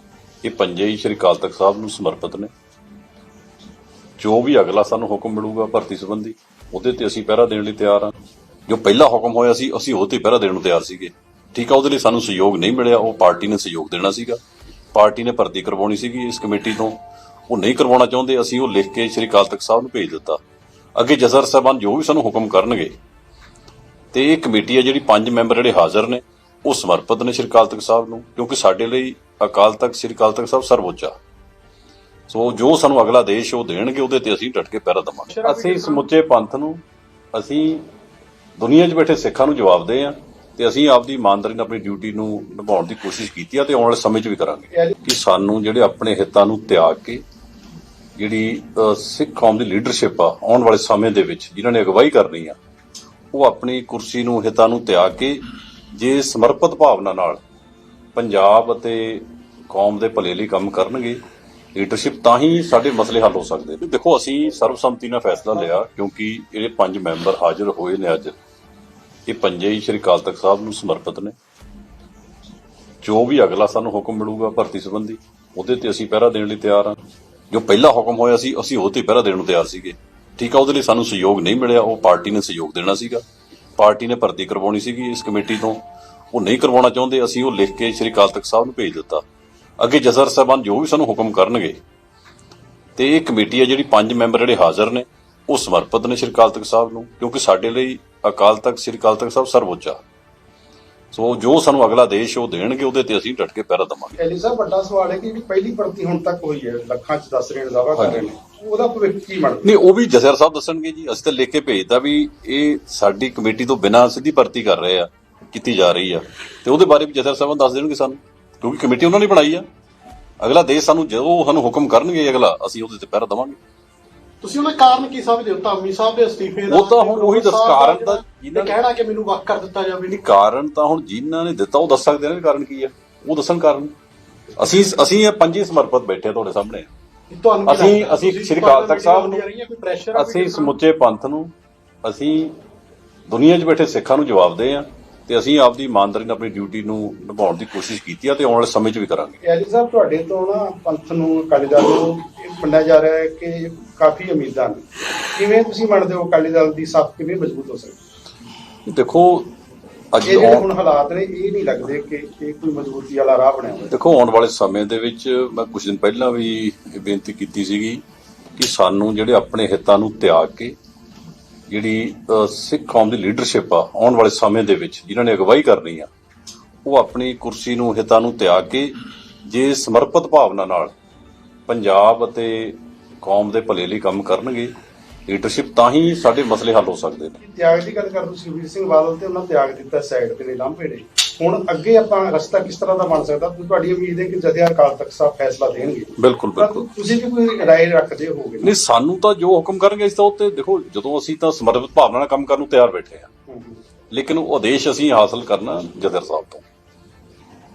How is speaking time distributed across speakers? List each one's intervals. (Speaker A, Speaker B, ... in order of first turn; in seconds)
Speaker A: 0.4-2.5, 4.2-8.1, 8.7-14.4, 14.9-20.4, 21.0-22.9, 24.1-31.2, 32.3-37.9, 38.6-47.2, 48.2-52.6, 53.3-57.4, 58.1-61.2, 61.8-68.4, 69.3-71.3, 73.0-77.0, 77.5-83.2, 83.8-89.2, 89.8-91.8, 93.0-100.0, 101.1-104.2, 108.0-108.2, 109.6-119.7, 120.4-123.6, 126.7-128.8, 130.1-133.9, 134.6-136.9, 137.7-139.4, 140.1-141.5, 142.0-142.6, 143.3-149.4, 158.9-159.5, 160.1-160.7, 163.9-168.0, 168.6-170.8, 171.7-176.1, 176.8-178.9, 179.5-180.9, 181.7-184.7, 185.3-187.4, 196.2-196.9, 198.6-203.3, 204.1-206.7
Speaker B: 35.3-36.1, 124.4-130.2, 137.3-140.8
Speaker C: 104.2-109.7, 149.4-158.0, 160.2-163.9, 187.4-198.7, 203.5-203.8